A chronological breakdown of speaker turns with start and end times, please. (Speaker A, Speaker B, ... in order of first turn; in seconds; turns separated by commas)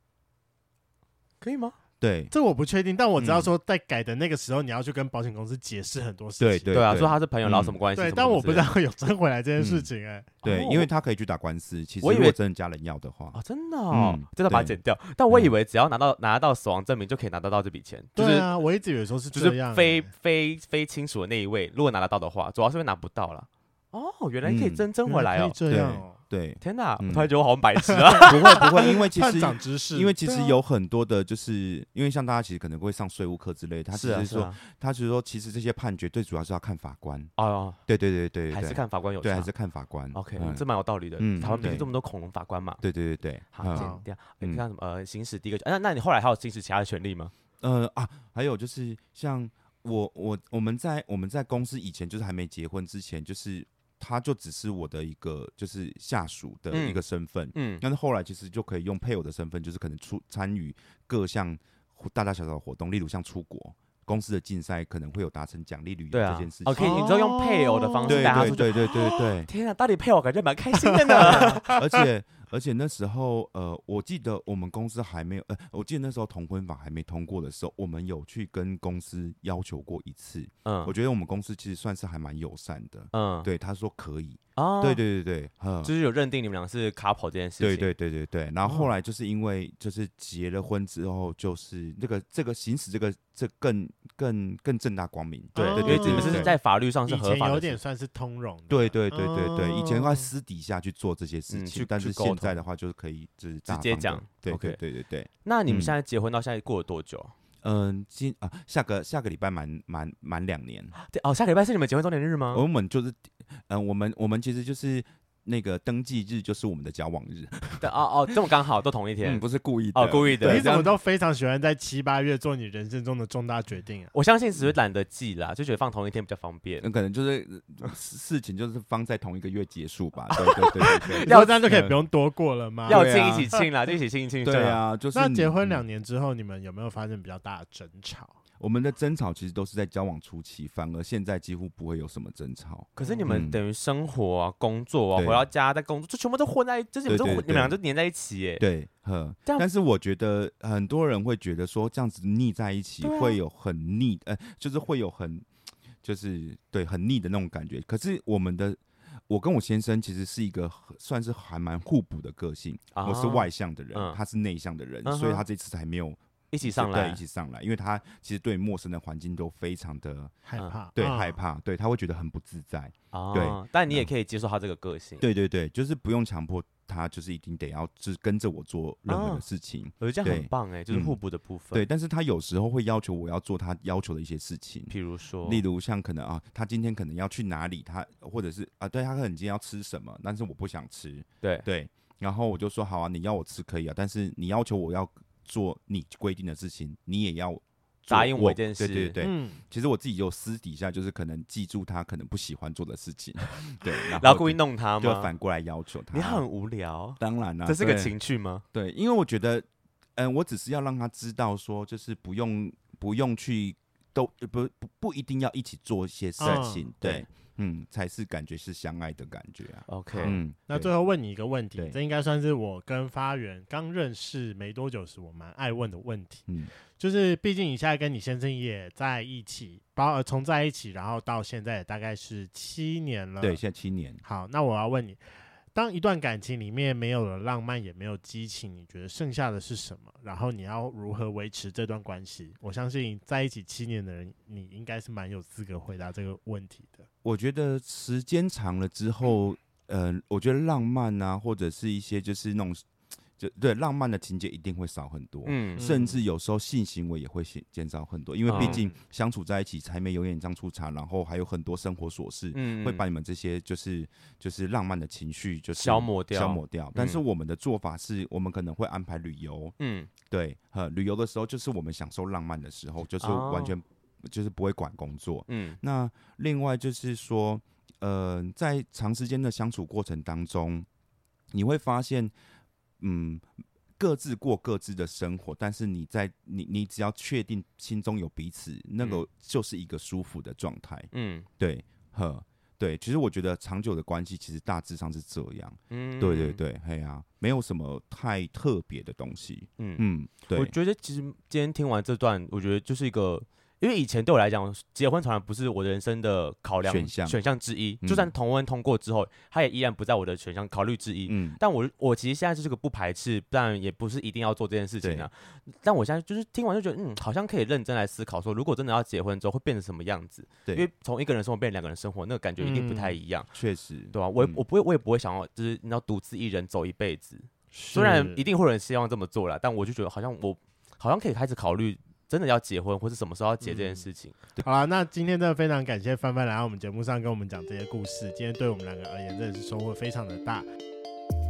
Speaker A: 1.4-1.8, Speaker B: 2.0-2.3, Speaker C: 2.3-6.8, Speaker B: 3.2-3.5, Speaker B: 6.4-7.8, Speaker A: 6.7-8.7, Speaker C: 8.0-10.9, Speaker B: 9.6-9.9, Speaker B: 10.4-13.4, Speaker A: 12.0-12.4, Speaker A: 13.3-18.5, Speaker B: 13.9-14.8, Speaker C: 18.2-20.1, Speaker A: 19.3-25.6, Speaker B: 24.4-24.9, Speaker C: 25.1-26.2, Speaker B: 25.7-27.3, Speaker A: 26.6-28.7, Speaker C: 27.9-30.1, Speaker B: 28.2-37.3, Speaker A: 30.2-30.6, Speaker A: 33.9-34.6, Speaker A: 37.4-37.8, Speaker B: 37.9-40.6, Speaker A: 38.5-39.5, Speaker A: 40.1-42.8, Speaker B: 41.2-41.9, Speaker B: 42.8-44.6, Speaker A: 43.5-47.3, Speaker C: 43.7-44.0, Speaker B: 47.6-67.1, Speaker A: 56.7-57.0, Speaker A: 57.5-57.8, Speaker A: 66.1-71.7, Speaker C: 66.8-68.7, Speaker B: 68.1-69.5, Speaker C: 70.8-71.9, Speaker B: 71.2-85.9, Speaker A: 80.7-80.9, Speaker A: 83.1-83.5, Speaker A: 84.6-85.0, Speaker A: 85.8-87.9, Speaker B: 87.6-96.5, Speaker C: 95.5-100.3, Speaker A: 95.6-97.8, Speaker B: 98.7-105.9, Speaker A: 101.5-102.6, Speaker A: 103.7-104.8, Speaker A: 105.4-107.3, Speaker B: 107.6-110.9, Speaker A: 111.0-112.7, Speaker B: 112.5-117.9, Speaker A: 117.8-119.4, Speaker B: 119.2-120.9, Speaker A: 119.9-120.7, Speaker C: 120.4-124.1, Speaker A: 124.1-126.8, Speaker B: 126.8-132.0, Speaker A: 130.3-131.6, Speaker C: 131.2-133.1, Speaker B: 132.9-133.6, Speaker A: 132.9-134.8, Speaker B: 134.4-135.8, Speaker C: 135.1-138.4, Speaker B: 138.6-143.6, Speaker A: 143.0-148.6, Speaker C: 143.0-143.3, Speaker B: 145.2-145.5, Speaker B: 147.1-147.8, Speaker B: 148.6-155.5, Speaker A: 153.0-153.4, Speaker B: 156.0-170.4, Speaker A: 162.9-164.2, Speaker A: 165.1-165.4, Speaker A: 166.5-167.2, Speaker C: 170.5-171.4, Speaker B: 170.9-174.1, Speaker A: 173.1-175.2, Speaker B: 175.2-181.2, Speaker A: 179.1-179.4, Speaker A: 180.0-181.8, Speaker B: 181.7-206.4, Speaker A: 184.9-185.6, Speaker A: 198.1-199.2, Speaker C: 199.2-199.6, Speaker A: 204.0-205.3, Speaker A: 206.1-208.6, Speaker B: 207.2-208.2, Speaker B: 208.7-220.9, Speaker C: 216.4-216.9, Speaker A: 216.4-217.2, Speaker A: 219.9-220.4, Speaker C: 220.1-233.6, Speaker B: 233.4-234.2, Speaker C: 234.2-247.1, Speaker B: 247.2-252.8, Speaker B: 253.4-269.7, Speaker A: 255.4-255.9, Speaker C: 255.8-256.2, Speaker A: 258.5-258.9, Speaker C: 258.5-258.9, Speaker A: 262.5-263.0, Speaker A: 265.8-267.2, Speaker A: 269.8-270.1, Speaker B: 270.2-280.9, Speaker A: 273.2-273.8, Speaker A: 275.5-275.8, Speaker B: 281.5-282.3, Speaker B: 283.0-300.7, Speaker A: 291.1-291.5, Speaker A: 295.9-296.6, Speaker A: 299.8-323.5, Speaker B: 306.8-307.4, Speaker B: 308.0-308.3, Speaker B: 311.3-311.6, Speaker B: 315.0-315.3, Speaker C: 322.6-323.2, Speaker B: 323.5-324.6, Speaker A: 324.1-334.4, Speaker C: 327.7-328.4, Speaker C: 333.6-334.0, Speaker C: 334.6-340.6